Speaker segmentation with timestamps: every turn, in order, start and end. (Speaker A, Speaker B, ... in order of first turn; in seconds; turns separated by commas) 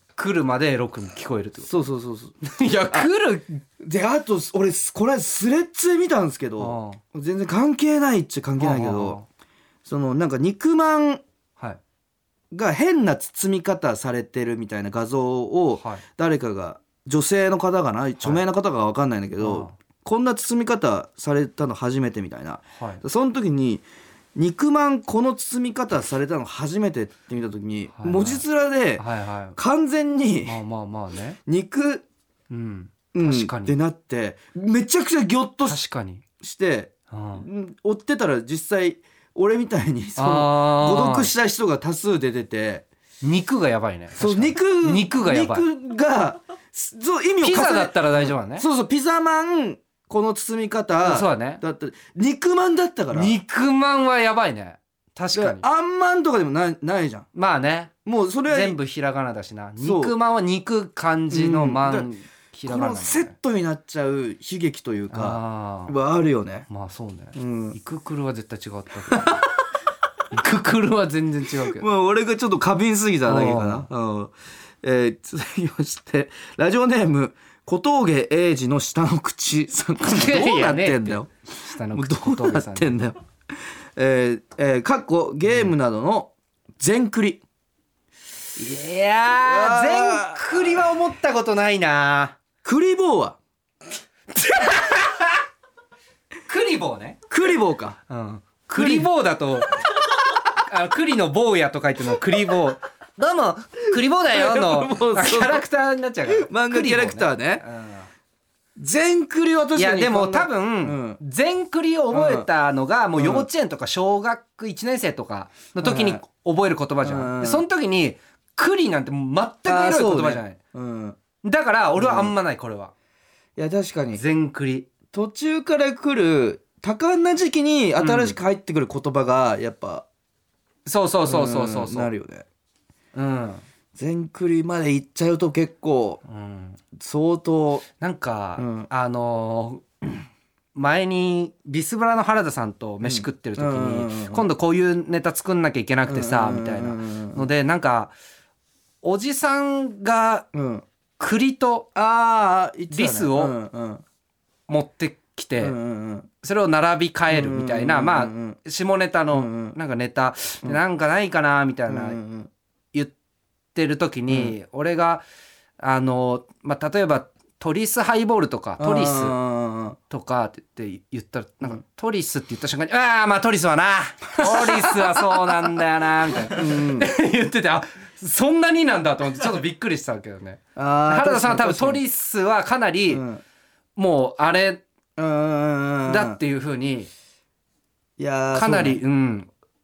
Speaker A: 0.1-1.7, Speaker B: 1.7-2.4, Speaker A: 2.4-3.6, Speaker B: 3.8-9.2, Speaker A: 6.6-7.0, Speaker A: 8.6-9.2, Speaker B: 9.8-11.2, Speaker B: 12.5-23.8, Speaker A: 15.8-16.0, Speaker A: 19.4-19.7, Speaker A: 22.8-23.0, Speaker B: 24.4-29.0, Speaker A: 27.9-28.4, Speaker A: 28.9-29.6, Speaker B: 29.6-30.6, Speaker A: 30.4-31.4, Speaker B: 31.5-32.0, Speaker A: 32.5-33.7, Speaker B: 33.1-35.8, Speaker A: 35.6-36.2, Speaker B: 36.4-42.8, Speaker A: 37.1-37.4, Speaker A: 40.2-41.3, Speaker A: 43.2-45.6, Speaker B: 44.2-53.3, Speaker A: 47.4-48.6, Speaker A: 51.0-51.6, Speaker A: 53.1-55.6, Speaker B: 55.3-57.2, Speaker A: 57.3-57.9, Speaker B: 58.0-58.8, Speaker A: 58.5-63.3, Speaker B: 59.8-60.1, Speaker B: 61.3-62.1, Speaker B: 62.6-66.7, Speaker A: 65.1-66.0, Speaker A: 66.7-69.4, Speaker B: 67.4-67.8, Speaker B: 69.1-69.5, Speaker A: 70.3-71.8, Speaker B: 71.7-81.3, Speaker A: 73.2-73.9, Speaker A: 80.0-82.9, Speaker B: 81.9-83.2, Speaker B: 84.0-87.4, Speaker A: 85.5-85.7, Speaker A: 88.5-92.4, Speaker B: 89.4-90.8, Speaker B: 92.6-93.4, Speaker A: 94.3-95.4, Speaker A: 96.5-97.2, Speaker B: 97.3-98.0, Speaker A: 98.1-108.1, Speaker B: 98.7-99.1, Speaker B: 104.2-105.6, Speaker B: 106.2-107.6, Speaker B: 108.8-111.2, Speaker A: 109.7-120.6, Speaker B: 112.1-112.5, Speaker B: 113.2-113.5, Speaker B: 115.8-116.2, Speaker B: 117.0-117.7, Speaker B: 119.7-121.2, Speaker A: 121.4-122.9, Speaker B: 122.0-122.3, Speaker B: 123.6-124.2, Speaker A: 124.1-124.9, Speaker B: 125.1-130.1, Speaker A: 128.0-128.3, Speaker A: 130.8-132.1, Speaker B: 131.2-132.4, Speaker A: 133.1-133.6, Speaker B: 133.9-136.2, Speaker A: 136.2-136.8, Speaker B: 137.0-137.8, Speaker A: 138.0-139.8, Speaker B: 138.6-138.9, Speaker A: 140.7-148.1, Speaker B: 143.0-144.4, Speaker B: 146.1-147.5, Speaker A: 149.0-150.4, Speaker B: 150.5-150.8, Speaker A: 151.2-151.9, Speaker B: 151.9-154.0, Speaker A: 152.9-153.5, Speaker A: 154.7-155.7, Speaker B: 155.6-156.3, Speaker A: 156.4-162.2, Speaker B: 157.3-158.6, Speaker B: 159.3-159.7, Speaker B: 161.9-162.5, Speaker A: 163.7-165.2, Speaker B: 164.3-164.5, Speaker A: 165.8-169.4, Speaker B: 168.8-170.0, Speaker A: 170.1-183.2, Speaker B: 174.4-175.5, Speaker B: 176.5-177.1, Speaker B: 180.8-182.0, Speaker B: 183.1-183.4, Speaker A: 183.9-184.8, Speaker B: 185.2-186.4, Speaker A: 186.1-187.1, Speaker B: 188.2-189.0, Speaker A: 188.5-189.5